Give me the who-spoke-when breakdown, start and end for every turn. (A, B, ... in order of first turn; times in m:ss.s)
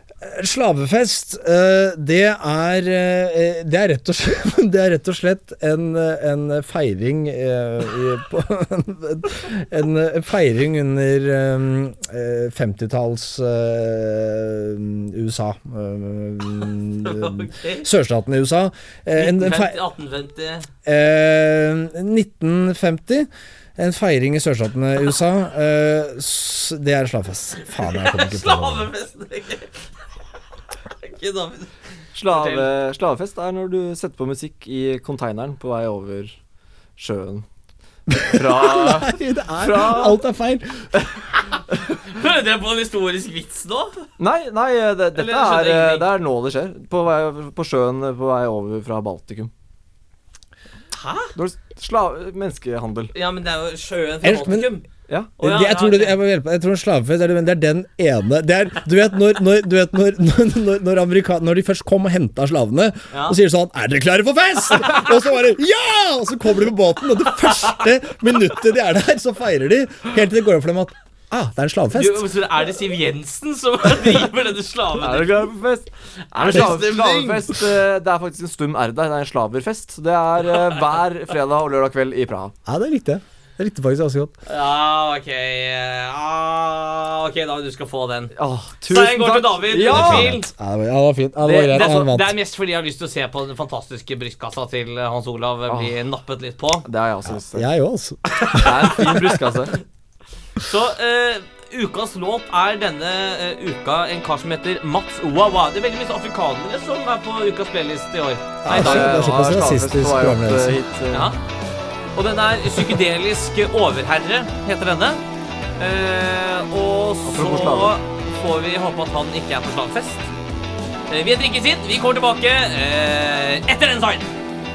0:00.2-0:19.8 A
0:17.0-0:17.8 B
0:19.1-0:20.7 B
0:20.8-0:28.9 A
0:27.8-0:29.8 B
0:31.0-0:31.7 B
0:32.1-0:36.4 C
0:32.3-0:32.7 B
0:37.0-0:37.4 C
0:38.1-0:41.0 A
0:38.2-0:40.2 C
0:41.9-0:44.0 B
0:44.2-0:49.5 C
0:45.1-0:46.1 B
0:50.9-0:51.3 B
0:51.3-0:53.1 C
0:53.1-0:54.8 B
0:54.2-0:54.7 A
0:55.1-0:55.3 C
0:55.4-0:56.2 B
0:55.4-1:12.3 A
1:03.1-1:03.4 B
1:11.9-1:15.5 B
1:15.0-1:22.5 C
1:16.4-1:17.5 B
1:22.6-1:24.3 A
1:24.4-1:28.3 B
1:28.3-1:30.3 C
1:28.9-1:30.5 B
1:29.8-1:32.3 A
1:31.4-1:32.1 C
1:31.5-1:36.8 B
1:35.7-1:35.9 C
1:36.8-1:37.7 C
1:37.3-1:39.4 A
1:38.5-1:39.8 C
1:40.6-1:49.2 B
1:48.6-1:50.8 A
1:48.7-1:51.3 C
1:51.1-1:51.4 B
1:52.1-1:55.2 B
1:55.8-2:00.3 B
1:57.2-1:58.0 C
2:01.1-2:04.3 B